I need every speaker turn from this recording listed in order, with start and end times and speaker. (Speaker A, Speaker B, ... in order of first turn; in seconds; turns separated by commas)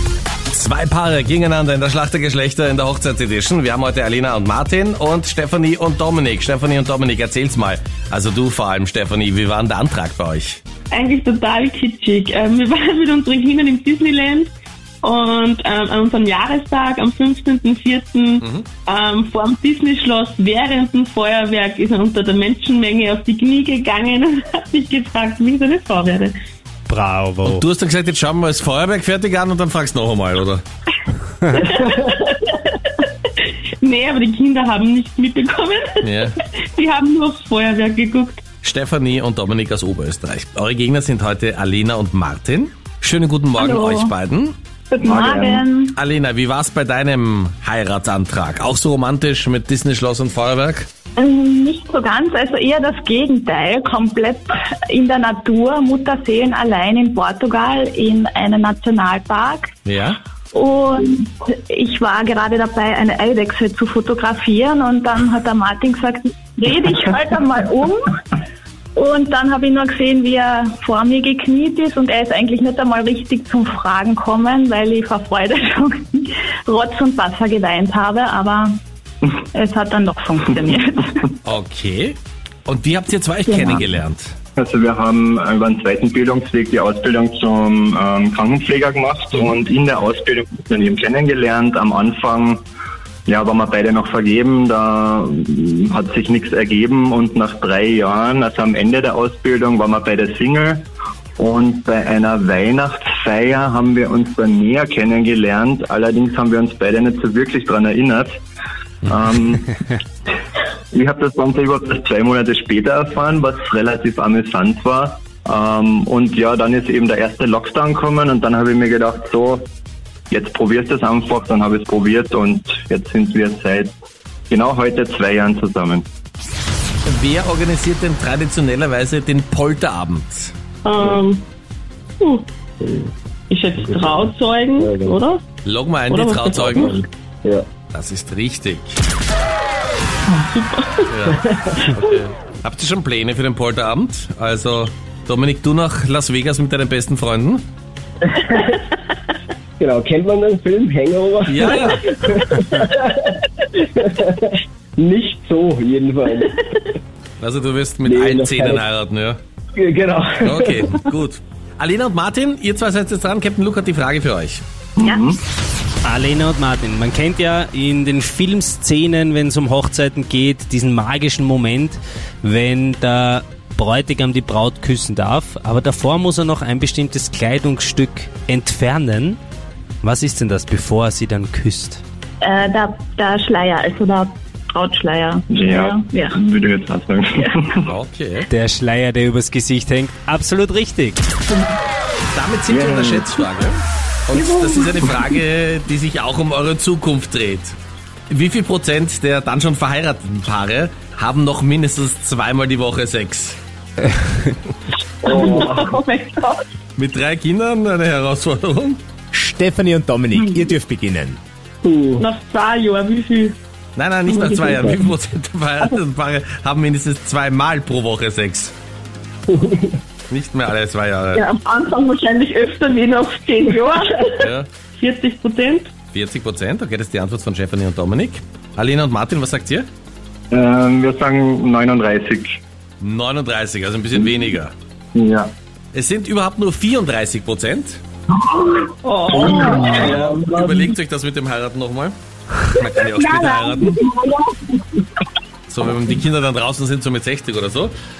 Speaker A: 0.5-10.6, Speaker B: 10.9-14.5, Speaker B: 15.0-26.3, Speaker A: 18.4-18.6, Speaker C: 26.9-27.6, Speaker A: 27.4-30.6, Speaker B: 31.5-33.1, Speaker B: 33.8-36.2, Speaker A: 36.0-36.3, Speaker B: 36.7-38.4, Speaker A: 38.6-44.5, Speaker D: 43.6-44.1, Speaker D: 44.9-45.9, Speaker E: 45.0-45.6, Speaker A: 45.9-50.9, Speaker D: 51.2-59.7, Speaker A: 59.9-60.2, Speaker D: 60.5-68.0, Speaker D: 69.0-78.7, Speaker D: 79.5-81.3, Speaker A: 81.5-84.3, Speaker D: 83.5-84.0, Speaker E: 84.6-92.6, Speaker E: 93.3-100.8, Speaker E: 101.4-108.3, Speaker E: 109.1-109.7, Speaker E: 110.9-119.6, Speaker E: 120.3-123.9, Speaker E: 124.5-126.0, Speaker A: 127.1-130.5, Speaker B: 130.8-131.4, Speaker B: 132.2-132.4, Speaker F: 132.8-133.1, Speaker B: 133.5-135.4, Speaker F: 133.8-135.2, Speaker A: 135.6-137.0, Speaker B: 136.1-137.0, Speaker A: 137.9-139.0, Speaker B: 140.3-141.1, Speaker A: 141.1-147.6, Speaker F: 141.3-141.8, Speaker F: 148.3-148.7, Speaker F: 149.8-156.9, Speaker A: 151.4-152.1, Speaker A: 157.4-159.4, Speaker F: 158.0-158.8, Speaker F: 159.8-160.9, Speaker A: 160.4-164.6, Speaker E: 165.0-165.4, Speaker C: 166.0-179.4, Speaker C: 180.0-182.0, Speaker D: 182.4-186.4, Speaker E: 185.5-187.8, Speaker A: 187.8-188.4, Speaker C: 188.5-191.2, Speaker A: 192.3-197.8, Speaker E: 192.7-193.3, Speaker B: 194.3-194.9, Speaker A: 198.3-203.6, Speaker B: 205.2-206.6, Speaker F: 205.3-205.9, Speaker A: 207.0-209.0, Speaker G: 209.3-211.4, Speaker F: 211.8-212.3, Speaker B: 212.2-213.6, Speaker A: 213.9-218.7, Speaker F: 214.4-215.0, Speaker F: 219.5-220.0, Speaker A: 220.3-221.4, Speaker B: 221.3-225.9, Speaker A: 224.4-224.7, Speaker A: 226.1-229.9, Speaker E: 230.5-232.5, Speaker A: 233.0-234.7, Speaker E: 235.1-235.5, Speaker A: 235.9-238.0, Speaker B: 239.0-240.1, Speaker A: 239.3-242.1, Speaker F: 239.3-240.9, Speaker A: 242.7-243.9, Speaker D: 243.2-243.9, Speaker A: 245.7-247.9